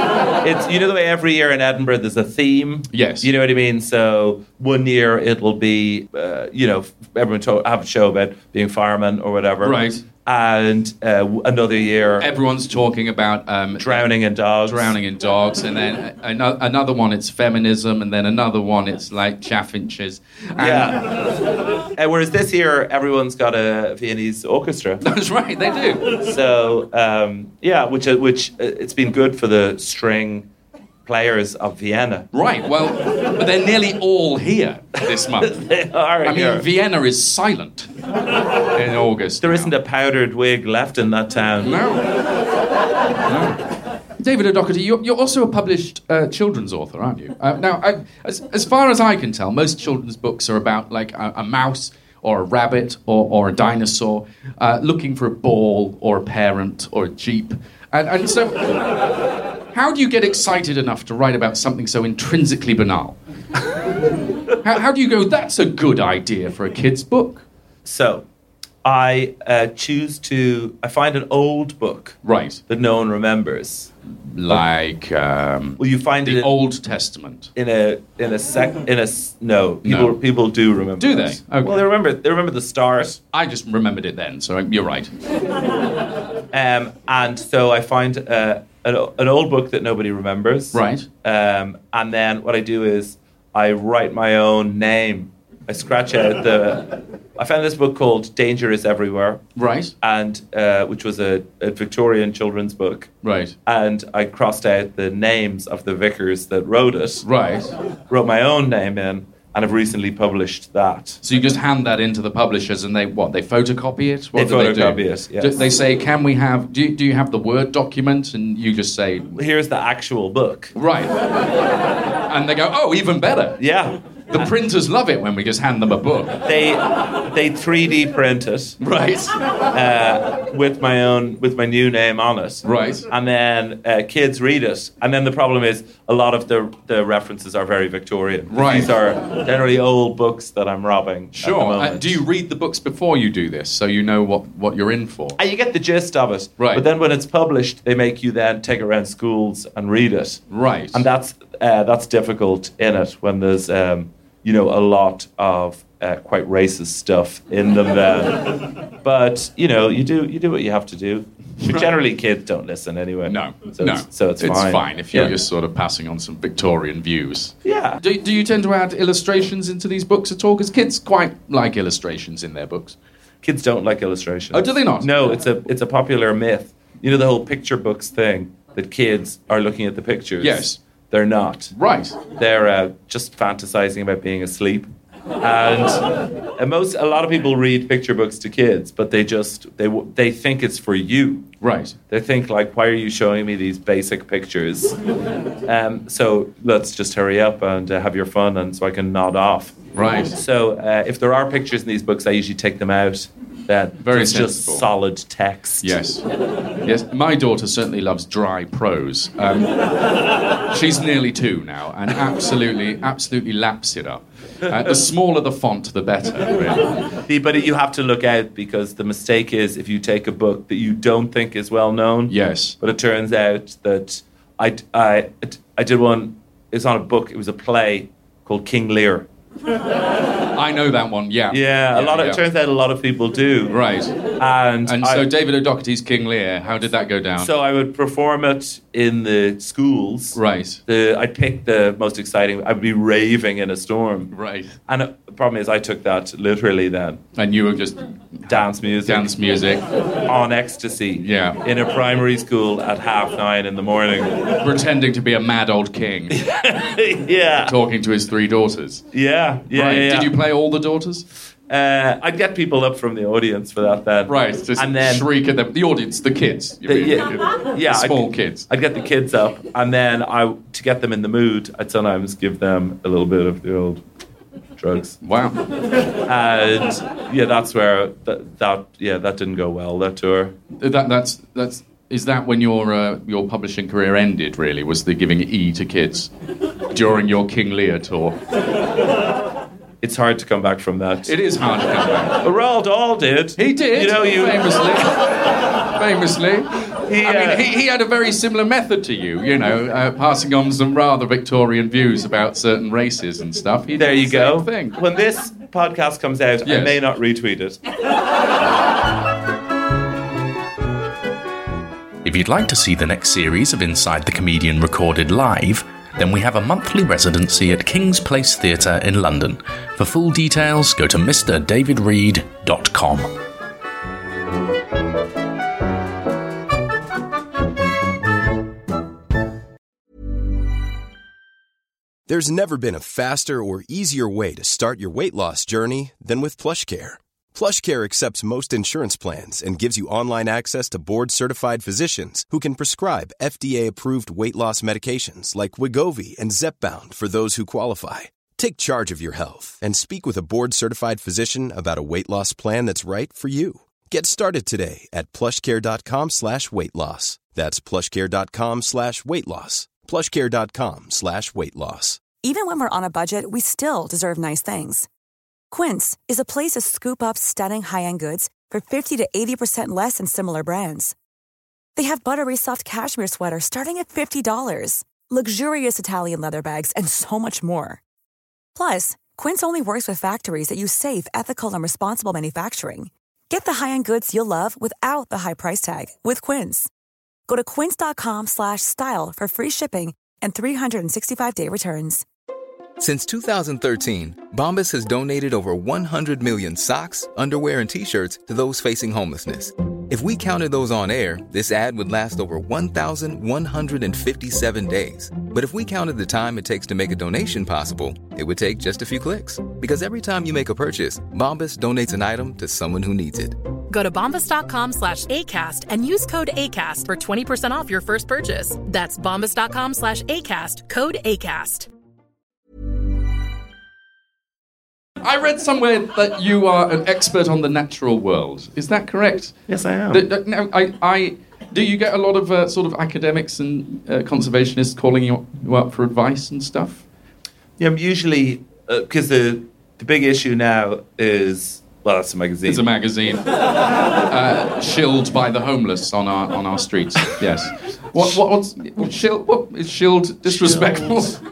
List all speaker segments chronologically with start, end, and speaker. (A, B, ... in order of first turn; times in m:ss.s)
0:00.4-0:12.3 A
0:02.9-0:03.3 B
0:09.6-0:10.0 B
0:12.2-0:14.1 B
0:13.8-0:15.0 A
0:14.6-0:21.0 B
0:20.6-0:25.0 A
0:25.0-0:26.1 B
0:26.2-0:30.5 A
0:31.1-0:32.3 A
0:32.3-0:35.7 B
0:35.4-0:36.6 A
0:36.2-0:37.9 B
0:38.7-0:39.7 B
0:39.4-0:41.8 A
0:41.6-0:42.1 B
0:43.3-0:43.6 B
0:44.2-0:58.9 B
0:59.7-1:03.2 B
1:04.6-1:07.4 B
1:07.8-1:08.2 A
1:08.8-1:13.9 A
1:12.2-1:12.6 B
1:14.3-1:17.5 B
1:15.8-1:16.5 A
1:17.6-1:23.2 A
1:19.8-1:20.2 B
1:21.0-1:21.8 B
1:23.3-1:25.1 B
1:26.5-1:39.4 A
1:30.7-1:31.1 B
1:39.6-1:39.9 B
1:40.0-1:43.1 A
1:43.2-1:43.5 B
1:43.7-1:47.3 A
1:47.2-1:47.7 B
1:48.1-1:51.2 A
1:51.2-1:59.3 B
1:54.4-1:55.6 A
1:59.4-2:00.7 A
2:00.7-2:01.2 B
2:02.2-2:03.6 B
2:03.6-2:04.5 A
2:04.3-2:06.4 B
2:06.4-2:08.8 A
2:08.8-2:09.3 B
2:09.7-2:22.2 A
2:12.6-2:13.1 B
2:18.5-2:18.9 B
2:21.4-2:25.4 B
2:25.4-2:45.3 A
2:26.6-2:26.8 B
2:30.5-2:31.0 B
2:41.6-2:41.9 B
2:43.3-2:53.0 B
2:47.6-2:48.0 A
2:53.4-3:01.7 A
2:54.5-2:55.4 B
3:00.4-3:00.8 B
3:01.7-3:02.2 B
3:02.3-3:04.9 A
3:05.4-3:11.5 A
3:11.6-3:12.0 B
3:12.1-3:15.0 A
3:15.6-3:26.0 A
3:19.9-3:20.4 B
3:24.0-3:24.9 B
3:25.8-3:26.2 B
3:26.8-3:29.9 B
3:30.7-3:36.9 B
3:37.3-3:49.3 A
3:42.3-3:42.8 B
3:50.5-3:52.4 B
3:51.5-3:53.8 A
3:53.7-3:54.2 B
3:54.4-3:55.3 A
3:54.9-3:57.5 B
3:57.4-4:04.3 A
4:00.4-4:00.8 B
4:04.3-4:04.7 B
4:04.9-4:07.2 A
4:07.4-4:08.5 B
4:08.5-4:09.3 A
4:09.0-4:09.8 B
4:10.2-4:14.5 A
4:11.2-4:11.6 B
4:14.6-4:16.4 B
4:16.3-4:17.8 A
4:17.7-4:19.0 B
4:19.1-4:20.3 A
4:19.7-4:21.2 B
4:21.7-4:25.3 A
4:24.3-4:28.7 B
4:26.9-4:34.0 A
4:34.8-4:35.2 A
4:35.2-4:35.6 B
4:36.2-4:40.5 A
4:40.8-4:46.3 B
4:46.9-4:48.4 B
4:50.0-4:51.4 A
4:51.3-4:52.4 B
4:52.4-4:55.1 A
4:53.6-4:55.2 B
4:55.8-5:05.0 B
4:57.1-4:57.6 A
5:04.0-5:07.8 A
5:06.6-5:07.0 B
5:12.2-5:23.3 C
5:32.3-6:02.2 D
6:02.4-6:05.1 E
6:05.7-6:11.1 E
6:12.0-6:18.0 E
6:18.8-6:26.9 E
6:27.5-6:32.2 E
6:33.0-6:53.6 F
6:53.9-7:01.9 G
7:05.2-7:09.6 B
7:09.7-7:10.2 A
7:10.1-7:17.0 B
7:17.8-7:22.8 A
7:22.7-7:23.5 B
7:24.1-7:31.4 B
7:30.5-7:31.2 A